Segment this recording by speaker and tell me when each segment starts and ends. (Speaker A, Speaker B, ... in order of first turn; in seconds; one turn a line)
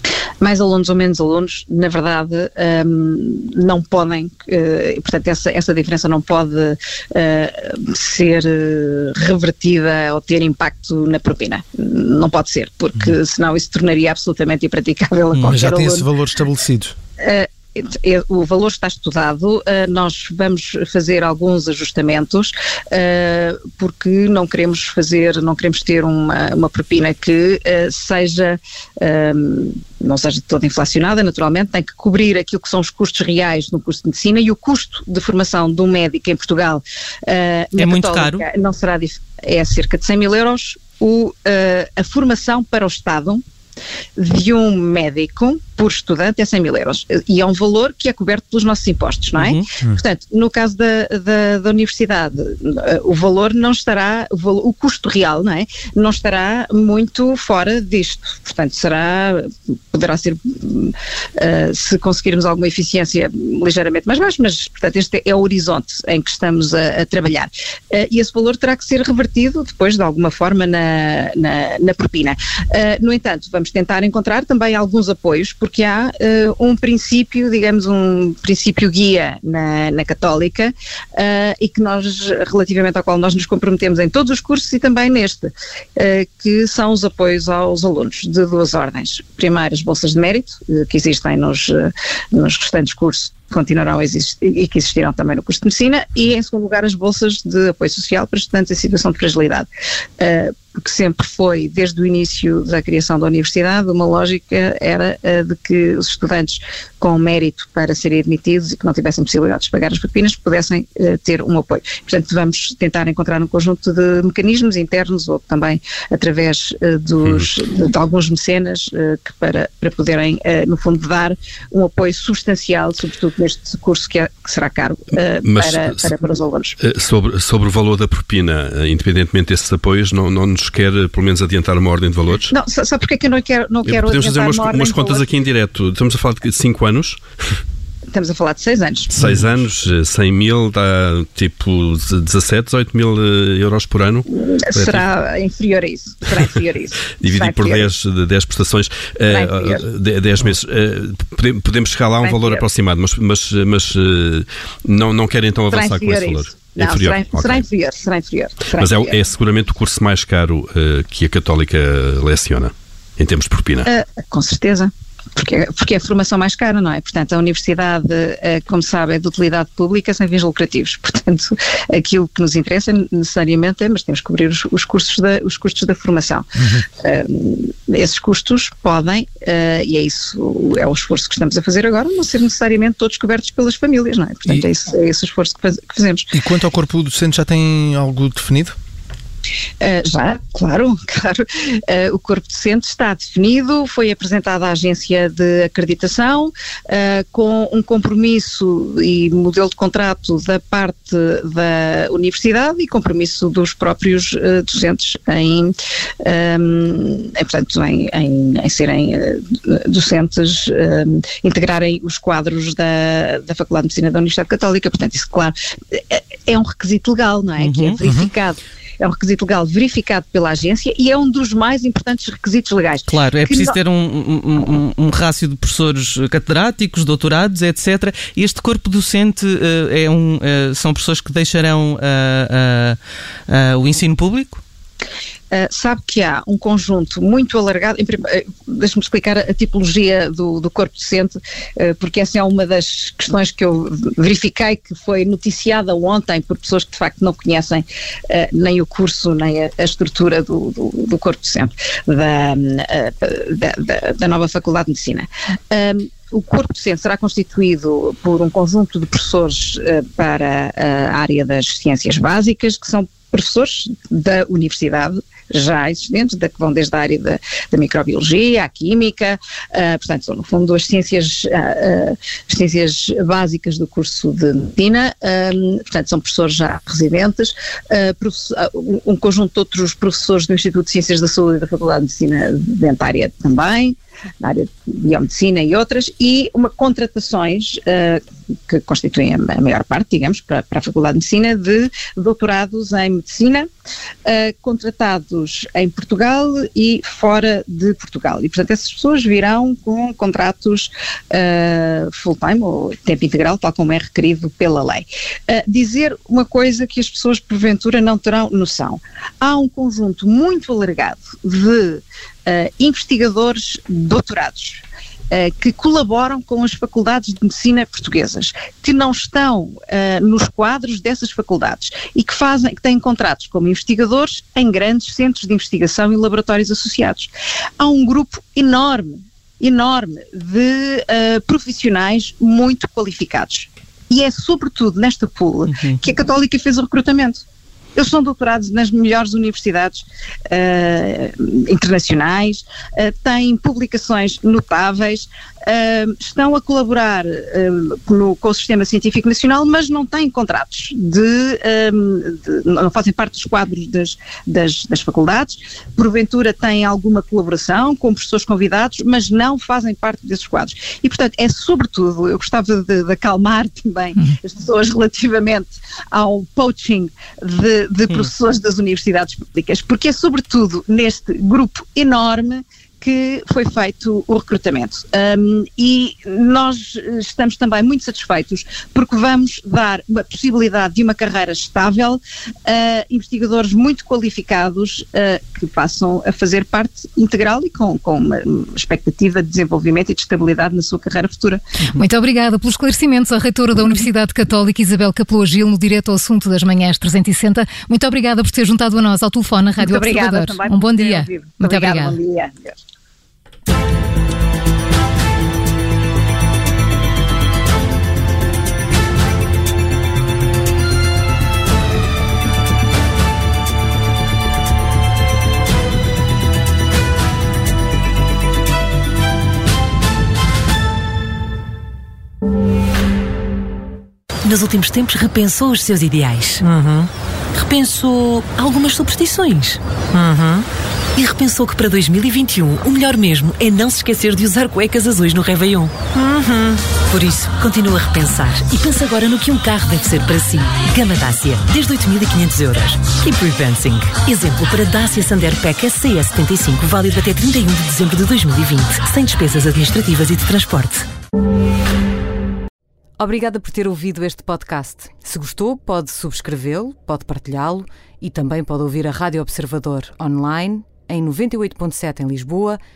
Speaker A: 0.4-16.1
Speaker B: 15.5-16.9
Speaker A: 17.2-43.4
Speaker C: 37.8-38.4
Speaker A: 44.1-99.7
Speaker C: 49.4-49.6
Speaker A: 100.2-126.8
Speaker D: 125.4-126.1
Speaker D: 126.8-132.5
Speaker A: 132.5-135.3
Speaker D: 133.9-137.6
Speaker A: 138.1-139.2
Speaker D: 139.1-145.0
Speaker A: 144.3-147.9
Speaker D: 147.2-157.6
Speaker A: 149.3-149.8
Speaker A: 152.2-152.6
Speaker A: 155.7-159.2
Speaker D: 158.7-163.9
Speaker A: 163.8-186.3
Speaker B: 176.6-176.8
Speaker B: 186.3-188.7
Speaker A: 189.8-223.8
Speaker C: 217.6-218.0
Speaker B: 218.0-218.3
Speaker C: 223.1-234.6
Speaker A: 235.5-293.7
Speaker A: 294.2-337.4
Speaker C: 335.7-336.0
Speaker A: 337.9-391.6
Speaker E: 391.9-402.2
Speaker A: 399.8-402.8
Speaker F: 424.4-451.1
Speaker F: 454.9-455.3